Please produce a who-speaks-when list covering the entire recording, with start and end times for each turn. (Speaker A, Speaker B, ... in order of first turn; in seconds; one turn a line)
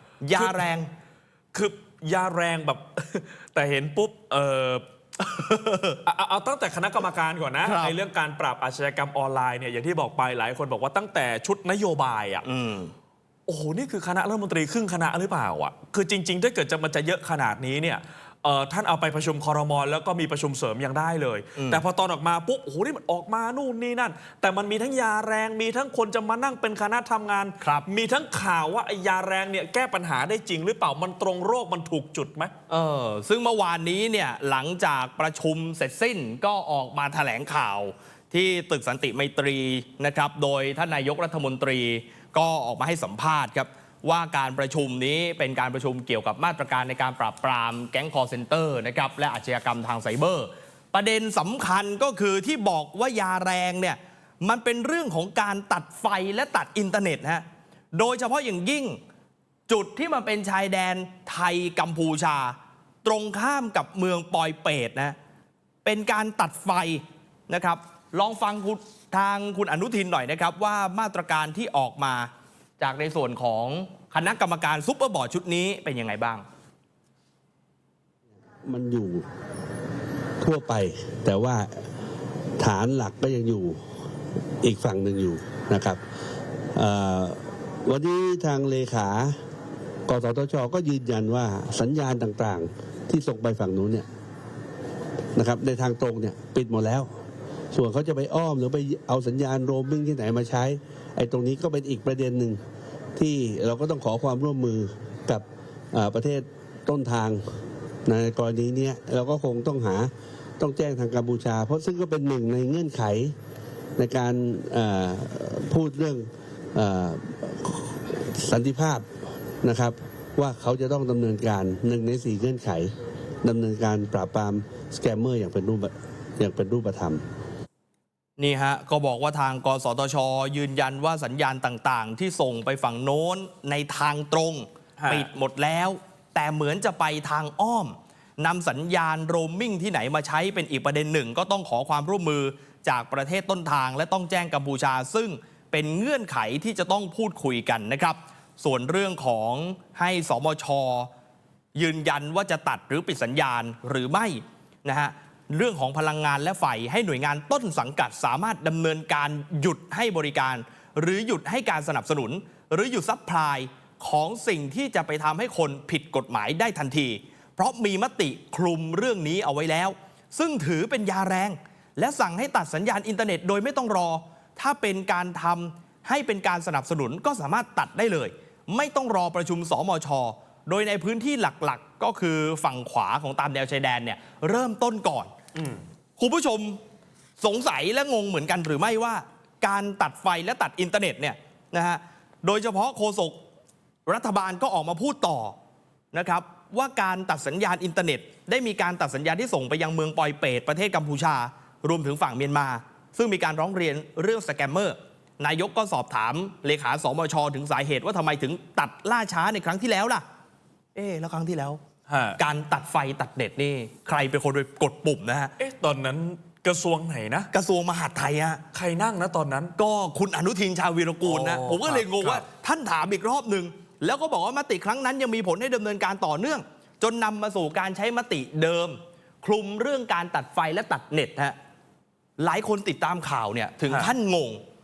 Speaker A: 0.2-0.9
Speaker B: 0.3-0.6
Speaker B: 1.5-4.8
Speaker A: 5.2-6.0
Speaker B: 6.0-12.4
Speaker A: 7.6-8.0
Speaker A: 12.4-12.9
Speaker B: 13.5-32.5
Speaker A: 21.6-21.8
Speaker A: 27.6-27.9
Speaker A: 32.7-59.0
Speaker A: 59.7-65.2
Speaker A: 65.8-76.4
Speaker C: 78.6-79.2
Speaker C: 80.4-81.8
Speaker C: 82.6-83.8
Speaker C: 84.6-86.0
Speaker C: 86.7-89.4
Speaker C: 90.1-94.0
Speaker C: 95.3-97.1
Speaker C: 97.7-102.6
Speaker C: 103.2-107.5
Speaker C: 108.0-113.3
Speaker C: 114.0-119.0
Speaker C: 119.6-122.9
Speaker C: 123.4-127.2
Speaker A: 128.4-151.1
Speaker B: 135.0-135.3
Speaker A: 151.7-185.3
Speaker B: 185.5-185.8
Speaker A: 186.2-186.8
Speaker A: 187.4-193.4
Speaker A: 194.1-195.6
Speaker A: 196.1-210.2
Speaker A: 210.9-211.8
Speaker B: 212.1-212.4
Speaker A: 212.4-215.5
Speaker B: 215.6-217.5
Speaker A: 217.5-218.6
Speaker B: 218.7-219.7
Speaker A: 219.8-231.6
Speaker B: 221.2-222.4
Speaker A: 232.4-234.6